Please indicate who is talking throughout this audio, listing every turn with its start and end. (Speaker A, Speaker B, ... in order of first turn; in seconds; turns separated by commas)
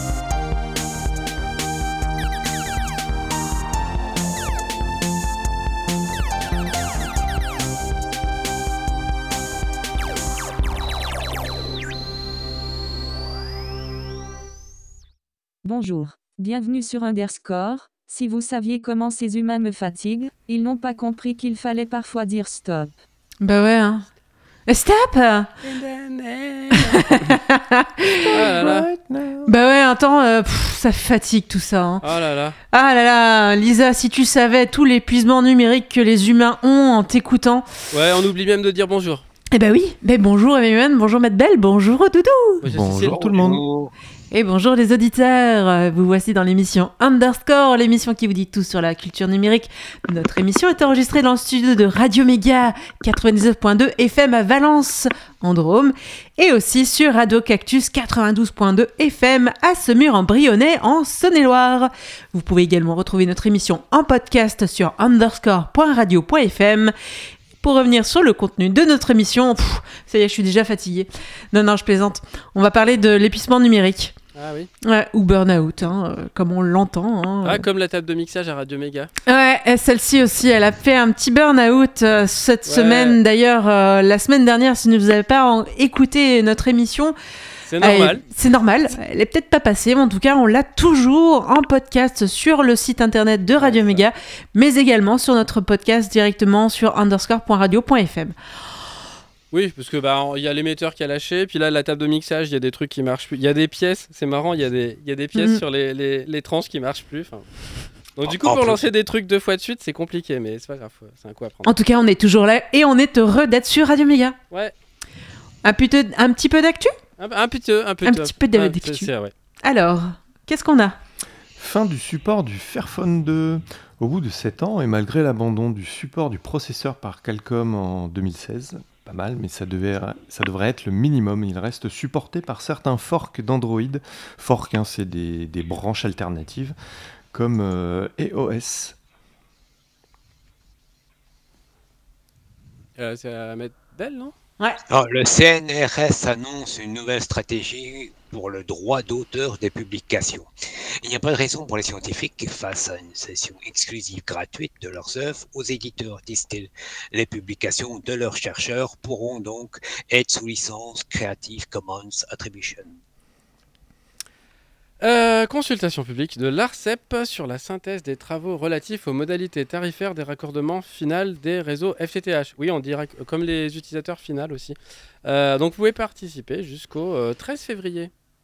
Speaker A: 15.6-22.9, Speaker B: 23.4-24.1, Speaker B: 24.7-25.5, Speaker C: 25.6-27.2, Speaker B: 26.8-28.4, Speaker D: 28.2-29.5, Speaker C: 28.3-28.9, Speaker B: 29.4-32.0, Speaker C: 32.0-32.6, Speaker B: 32.7-37.7, Speaker C: 37.9-39.2, Speaker B: 39.5-42.6, Speaker C: 42.6-43.6, Speaker D: 42.6-43.6, Speaker E: 43.0-43.9, Speaker B: 44.3-66.9, Speaker B: 67.6-74.1, Speaker C: 74.3-74.7, Speaker B: 74.8-77.6, Speaker C: 77.4-79.1, Speaker B: 79.2-87.1, Speaker C: 82.7-83.2, Speaker C: 87.7-88.2, Speaker B: 87.8-98.3, Speaker C: 93.6-94.0, Speaker C: 99.5-107.5, Speaker B: 105.3-105.6, Speaker C: 108.1-111.7, Speaker E: 108.2-108.9, Speaker B: 111.7-114.3, Speaker B: 115.6-116.9, Speaker C: 117.2-119.3, Speaker B: 118.0-119.1, Speaker B: 119.6-121.0, Speaker D: 121.6-136.7, Speaker D: 137.3-139.0, Speaker C: 143.0-144.3, Speaker E: 144.9-150.5, Speaker E: 151.0-163.0, Speaker C: 165.0-178.1